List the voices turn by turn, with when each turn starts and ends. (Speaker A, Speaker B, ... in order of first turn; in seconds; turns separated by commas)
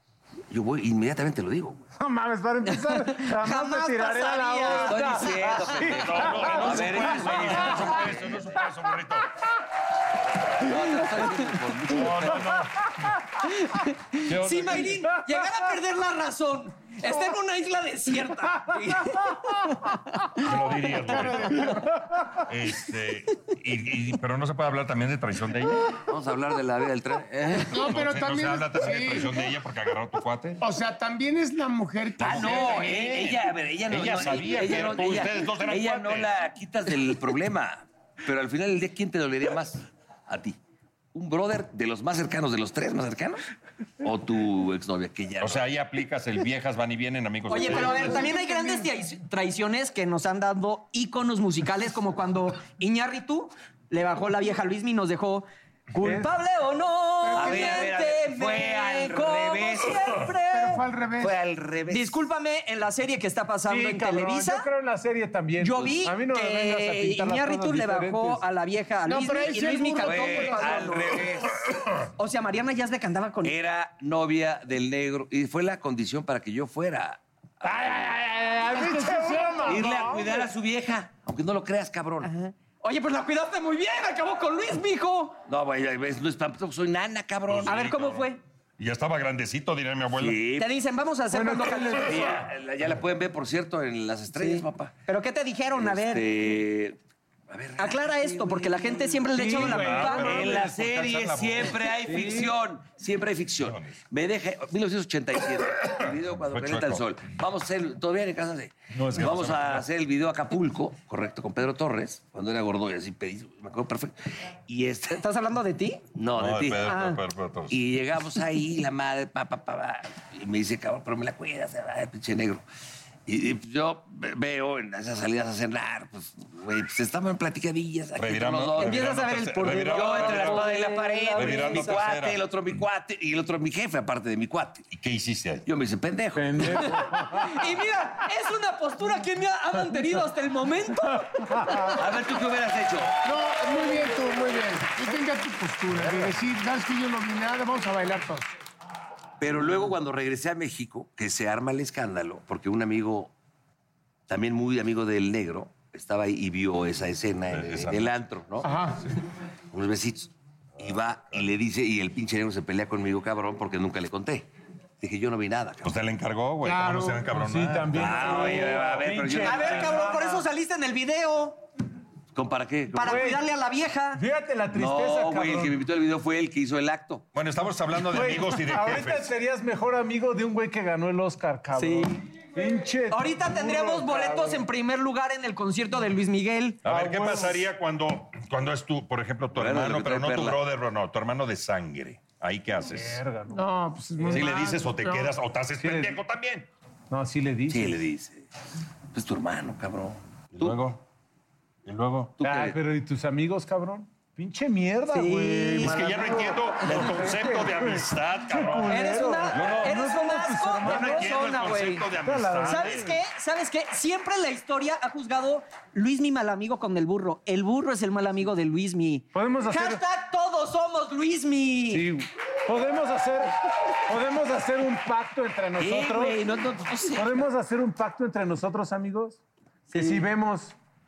Speaker A: 0.5-1.9, Speaker B: 2.0-8.2, Speaker C: 2.7-5.6, Speaker A: 4.7-8.6, Speaker D: 6.0-9.3, Speaker C: 7.1-7.6, Speaker A: 10.6-12.6, Speaker D: 11.8-13.2, Speaker C: 13.4-21.3, Speaker D: 14.3-15.1, Speaker D: 20.4-21.7, Speaker E: 21.1-21.9, Speaker D: 22.5-25.9, Speaker A: 26.0-28.0, Speaker E: 27.7-29.5, Speaker D: 27.9-30.6, Speaker E: 30.6-33.4, Speaker A: 32.2-40.6, Speaker D: 32.2-33.2, Speaker D: 33.9-36.3, Speaker A: 41.1-43.5, Speaker A: 44.0-45.7, Speaker D: 45.4-48.3, Speaker C: 47.5-60.9, Speaker E: 47.7-48.9, Speaker E: 57.2-57.9, Speaker A: 57.3-60.2, Speaker E: 60.5-61.4, Speaker A: 61.2-62.2, Speaker C: 61.9-64.7, Speaker B: 63.7-68.4, Speaker C: 65.6-71.3, Speaker E: 69.0-71.3, Speaker A: 70.0-71.6, Speaker C: 72.2-73.5, Speaker A: 73.4-78.2, Speaker B: 77.7-80.2, Speaker E: 78.7-80.2, Speaker A: 79.7-82.3, Speaker C: 82.2-85.4, Speaker A: 85.5-87.8, Speaker D: 87.5-90.5, Speaker C: 87.7-88.4, Speaker A: 90.2-90.7, Speaker C: 90.6-92.2, Speaker B: 91.3-92.1, Speaker A: 91.8-94.9, Speaker C: 94.4-96.5, Speaker A: 95.8-97.0, Speaker A: 97.5-114.1, Speaker C: 97.8-100.4, Speaker B: 99.3-100.7, Speaker D: 99.5-101.8, Speaker B: 102.0-102.5, Speaker D: 103.6-104.0, Speaker D: 105.9-107.0, Speaker D: 108.9-109.9, Speaker A: 114.7-115.2, Speaker C: 115.1-116.0, Speaker A: 116.2-117.0, Speaker D: 116.3-117.8, Speaker C: 116.8-117.2, Speaker A: 117.7-122.6, Speaker A: 123.3-129.1, Speaker D: 128.2-130.7, Speaker C: 128.8-132.0, Speaker A: 129.8-134.9, Speaker D: 131.4-132.4, Speaker D: 134.9-135.7, Speaker A: 135.7-137.1, Speaker B: 136.3-137.5, Speaker C: 136.8-142.0, Speaker B: 141.1-142.0, Speaker A: 141.9-143.2, Speaker E: 143.2-148.5, Speaker B: 146.0-146.3, Speaker A: 149.4-153.3, Speaker A: 154.3-158.7, Speaker D: 157.5-158.1, Speaker E: 158.6-159.1, Speaker A: 159.7-164.5, Speaker A: 165.0-165.9, Speaker D: 165.8-169.9, Speaker E: 166.6-167.2, Speaker B: 167.3-170.4, Speaker A: 168.0-170.1, Speaker C: 169.4-171.6, Speaker A: 172.3-173.4, Speaker C: 172.9-174.2, Speaker B: 173.0-173.4, Speaker B: 174.1-175.8, Speaker A: 174.7-177.2, Speaker D: 177.3-179.3, Speaker B: 178.1-184.6, Speaker C: 181.8-182.2, Speaker C: 183.1-186.8, Speaker D: 186.8-193.2, Speaker B: 186.8-187.7, Speaker A: 189.5-190.6, Speaker B: 192.9-193.6, Speaker E: 193.5-195.3, Speaker B: 194.2-194.5, Speaker D: 194.3-196.7, Speaker B: 195.8-196.2, Speaker B: 197.1-198.0, Speaker A: 197.7-198.5, Speaker A: 199.1-200.8, Speaker D: 200.6-201.0, Speaker D: 201.8-202.4, Speaker A: 202.4-202.8, Speaker B: 202.4-211.3, Speaker C: 205.1-206.1, Speaker D: 205.8-209.0, Speaker C: 206.8-207.3, Speaker C: 208.9-212.1, Speaker D: 209.5-210.1, Speaker D: 210.8-213.1, Speaker B: 212.2-213.1, Speaker C: 212.7-222.1, Speaker B: 219.3-220.0, Speaker B: 221.9-223.5, Speaker B: 224.1-226.4, Speaker A: 225.8-227.3, Speaker C: 226.5-227.2, Speaker B: 227.2-230.8, Speaker C: 229.9-230.2